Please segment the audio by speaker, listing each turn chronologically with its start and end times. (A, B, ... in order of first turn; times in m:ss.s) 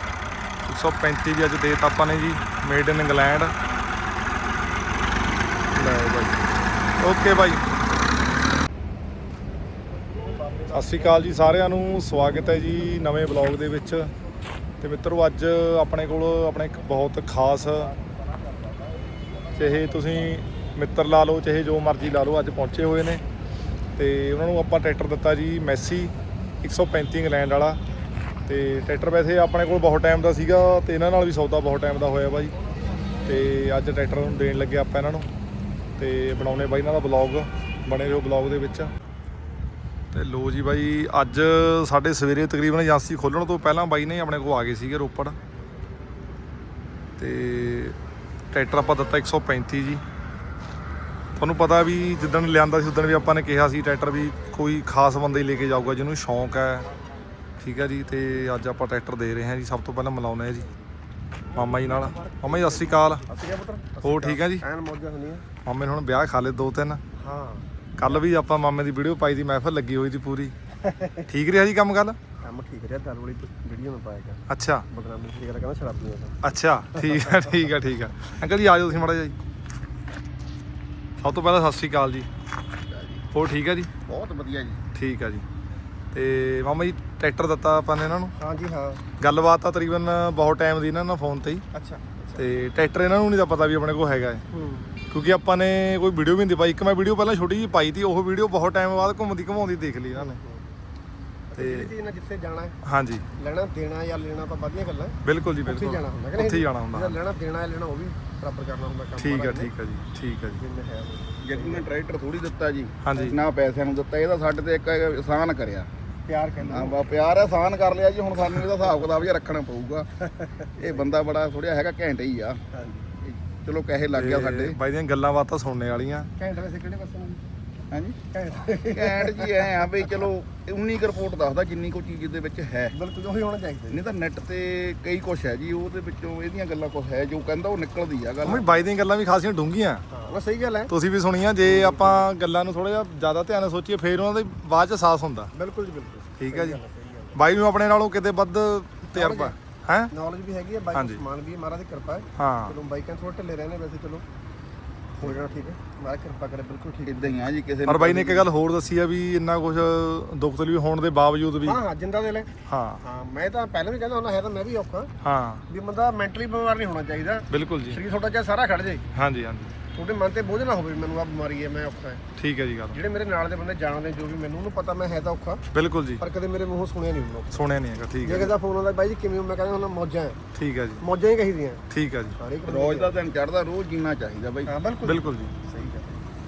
0:00.7-0:03.6 A
0:05.8-0:06.4 A
0:07.0-0:07.6 A
0:10.7-0:14.1 A
0:14.8-0:17.9 A
0:19.6-0:23.2 A
0:19.8-0:20.1 B
0:24.0-0:27.8 A
0:28.5-0:32.5 A
0:33.3-0:35.3 A
0:36.0-0:38.9 A
0:40.1-0:45.4 A
0:47.2-0:48.0 A
0:48.5-0:50.0 A
0:51.4-0:56.9 A
0:57.6-1:00.7 A
1:01.5-1:03.3 A
1:02.2-1:05.5 B
1:04.0-1:04.6 A
1:05.6-1:07.0 A
1:07.2-1:08.2 B
1:08.0-1:10.6 A
1:10.9-1:11.2 B
1:11.2-1:12.2 A
1:12.4-1:16.4 B
1:14.5-1:14.9 A
1:16.4-1:19.4 A
1:17.0-1:17.5 B
1:21.2-1:22.3 A
1:22.9-1:23.2 C
1:23.3-1:23.9 A
1:24.1-1:24.8 C
1:24.9-1:25.4 A
1:26.1-1:28.4 A
1:28.4-1:29.0 B
1:29.2-1:31.6 A
1:31.7-1:32.6 B
1:32.4-1:34.4 A
1:34.5-1:35.0 B
1:35.1-1:40.4 A
1:40.1-1:40.6 B
1:41.5-1:42.8 B
1:41.6-1:41.9 A
1:42.8-1:43.2 A
1:43.4-1:49.7 B
1:45.2-1:47.2 A
1:49.2-1:50.6 A
1:50.6-1:51.9 B
1:51.4-1:55.9 C
1:53.0-1:53.4 A
1:56.3-1:57.0 B
1:56.6-2:00.1 C
2:00.8-2:04.8 C
2:02.8-2:03.0 B
2:04.1-2:06.3 A
2:06.4-2:07.4 B
2:07.9-2:08.2 C
2:08.3-2:09.8 B
2:08.8-2:13.0 C
2:12.9-2:14.0 B
2:13.9-2:18.8 C
2:18.4-2:20.0 A
2:20.1-2:20.9 B
2:20.9-2:25.5 A
2:21.6-2:22.3 B
2:25.5-2:27.4 B
2:26.4-2:26.8 A
2:27.4-2:30.1 A
2:29.1-2:29.6 B
2:30.1-2:34.2 B
2:30.9-2:31.2 A
2:32.4-2:32.8 A
2:35.2-2:37.5 B
2:37.1-2:38.5 C
2:37.9-2:41.8 A
2:41.6-2:42.5 B
2:42.7-2:43.0 A
2:43.0-2:45.1 B
2:45.2-2:45.6 A
2:45.7-2:49.0 B
2:47.5-2:48.0 A
2:49.1-2:49.7 A
2:49.9-2:52.2 B
2:52.4-2:53.0 A
2:52.9-2:55.6 B
2:55.7-2:56.2 A
2:56.2-2:57.6 B
2:57.5-2:58.5 A
2:58.2-3:00.4 B
3:00.5-3:01.0 A
3:01.0-3:01.8 B
3:01.9-3:02.4 A
3:02.4-3:03.2 B
3:02.6-3:04.7 C
3:04.7-3:06.2 B
3:05.0-3:05.5 A